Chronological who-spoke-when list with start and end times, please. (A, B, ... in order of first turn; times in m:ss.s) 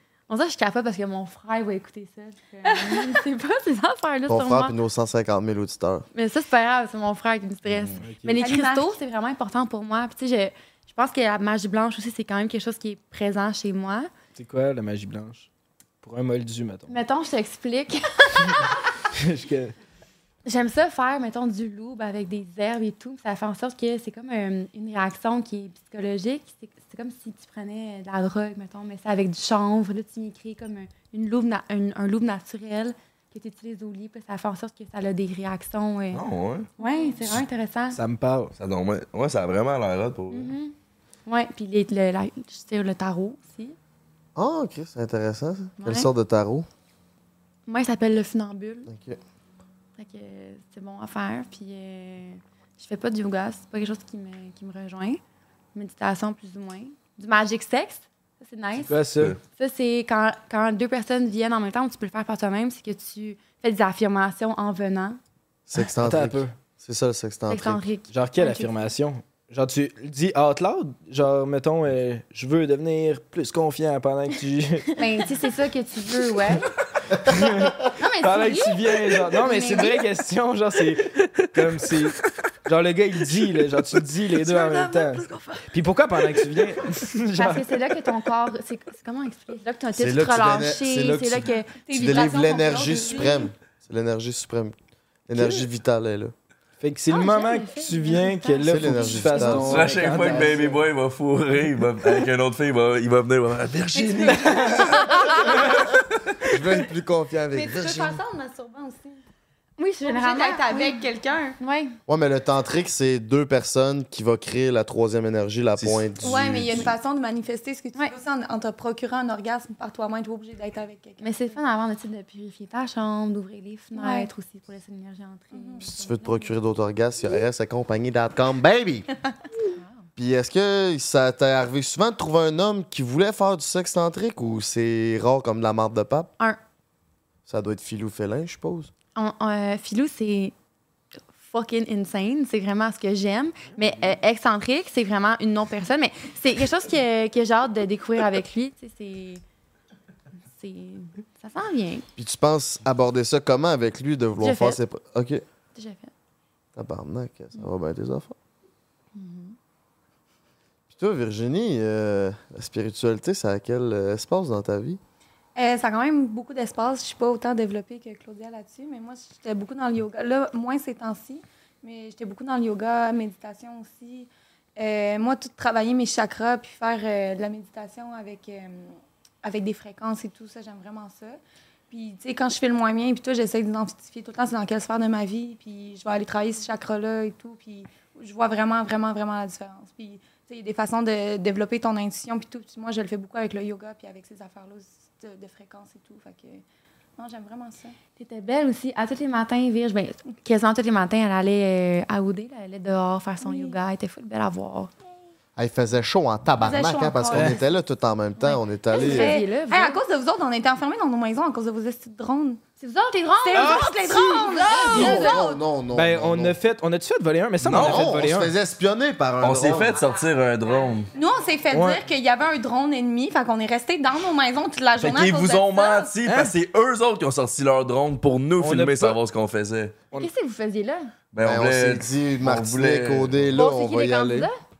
0:00.3-0:04.7 A
0:02.8-0:03.1 B
0:04.3-0:06.1 C
0:06.1-0:14.1 A
0:08.0-0:08.4 D
0:08.4-0:09.0 B
0:14.3-0:15.5 D
0:16.0-0:17.0 D
0:16.9-0:18.9 A
0:19.1-0:19.7 D
0:20.4-0:36.2 A
0:36.1-0:36.7 E
0:36.8-0:38.0 A
0:37.9-0:38.5 D
0:38.6-0:40.5 E
0:40.3-0:40.7 A
0:41.2-0:43.8 A
0:44.4-0:46.7 C
0:45.8-0:46.1 A
0:47.7-0:48.9 A
0:48.9-0:49.2 C
0:50.0-0:55.2 A
0:55.7-0:59.0 A
0:58.8-0:59.4 D
0:59.5-1:05.2 A
1:05.7-1:07.8 C
1:05.8-1:06.5 D
1:07.5-1:08.7 A
1:08.1-1:15.0 D
1:15.0-1:16.7 A
1:17.1-1:27.7 D
1:17.8-1:20.0 A
1:24.3-1:25.7 B
1:27.3-1:31.8 A
1:30.0-1:34.8 C
1:31.8-1:33.5 B
1:35.3-1:36.3 C
1:35.3-1:35.6 D
1:36.8-1:40.8 D
1:37.1-1:39.8 A
1:38.6-1:39.8 C
1:39.6-1:45.3 E
1:43.9-1:45.3 B
1:44.5-1:44.8 D
1:46.2-1:46.5 E
1:46.5-1:48.2 C
1:47.5-1:49.2 B
1:49.8-1:52.0 A
1:50.0-1:51.6 B
1:52.1-1:56.9 C
1:55.8-1:56.8 E
1:56.2-2:01.6 B
2:01.2-2:06.5 A
2:03.9-2:04.3 B
2:05.5-2:05.8 B
2:05.8-2:09.1 C
2:10.2-2:16.3 C
2:17.5-2:18.9 C
2:19.1-2:20.5 A
2:21.4-2:29.4 A
2:30.5-2:32.0 A
2:32.2-2:35.4 C
2:34.4-2:34.8 A
2:35.7-2:36.1 A
2:36.8-2:38.3 C
2:39.1-2:39.6 A
2:40.9-2:45.0 C
2:45.5-3:16.6 B
3:17.2-3:17.9 B
3:18.2-3:24.9 A
3:23.4-3:23.8 B
3:25.6-3:29.4 C
3:26.6-3:27.6 B
3:28.4-3:30.0 A
3:28.9-3:32.6 B
3:32.8-3:35.4 A
3:33.3-3:35.6 B
3:33.5-3:34.2 D
3:34.9-3:36.6 C
3:34.9-3:35.2 D
3:35.9-3:38.5 D
3:37.6-3:38.2 E
3:37.8-3:40.0 C
3:39.4-3:41.1 E
3:41.1-3:46.1 B
3:41.7-3:42.0 D
3:45.0-3:50.0 E
3:46.2-3:46.6 D
3:48.6-3:49.2 D
3:50.1-3:51.1 A
3:51.3-3:53.6 E
3:51.4-3:54.5 C
3:53.5-3:54.6 A